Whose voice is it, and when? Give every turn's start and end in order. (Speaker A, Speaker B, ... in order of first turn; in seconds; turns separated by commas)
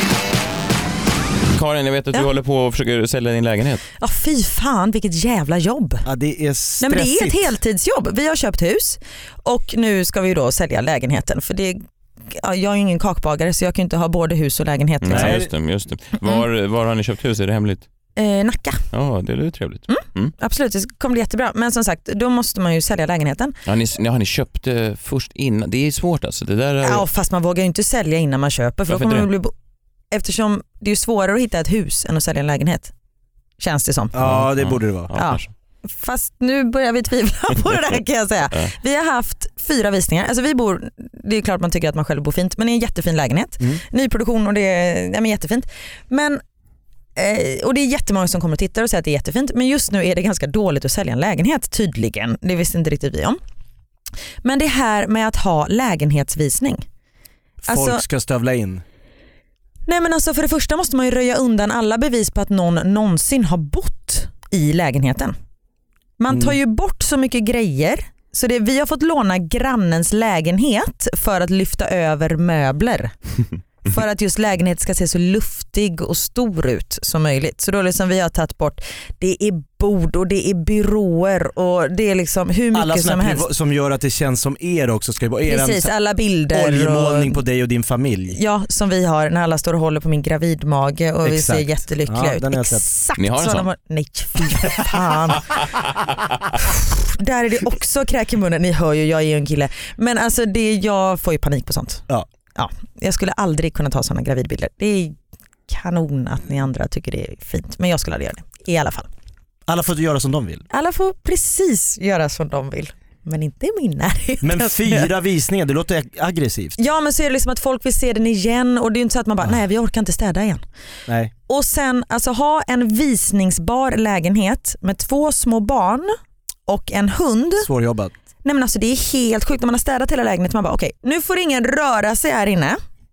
Speaker A: 1.5-3.8, Speaker B: 4.0-6.0, Speaker C: 6.0-7.5, Speaker B: 6.8-15.4, Speaker A: 15.0-17.9, Speaker C: 15.1-15.5, Speaker B: 18.2-18.8, Speaker A: 18.9-20.3, Speaker B: 19.9-23.5, Speaker A: 23.6-27.1, Speaker B: 26.8-29.5, Speaker A: 28.9-29.3, Speaker B: 30.1-32.9, Speaker B: 33.6-34.1, Speaker C: 34.1-35.1, Speaker A: 34.2-35.5, Speaker B: 35.1-46.4, Speaker B: 47.1-53.4, Speaker B: 54.4-56.8, Speaker C: 57.6-58.8, Speaker B: 57.7-58.0, Speaker B: 59.9-65.3, Speaker B: 66.2-73.1, Speaker C: 66.3-66.5, Speaker B: 73.8-83.5, Speaker C: 82.7-85.9, Speaker B: 85.4-87.4, Speaker C: 86.5-88.4, Speaker B: 88.3-95.6, Speaker C: 91.2-92.9, Speaker A: 93.2-93.7, Speaker B: 96.6-102.0, Speaker B: 102.5-105.2, Speaker B: 105.7-109.1, Speaker C: 109.7-110.6, Speaker B: 110.7-115.1, Speaker C: 114.4-116.8, Speaker B: 116.8-120.6, Speaker C: 121.1-121.3, Speaker B: 121.5-126.1, Speaker B: 126.7-127.7, Speaker C: 127.6-128.1, Speaker B: 128.4-132.8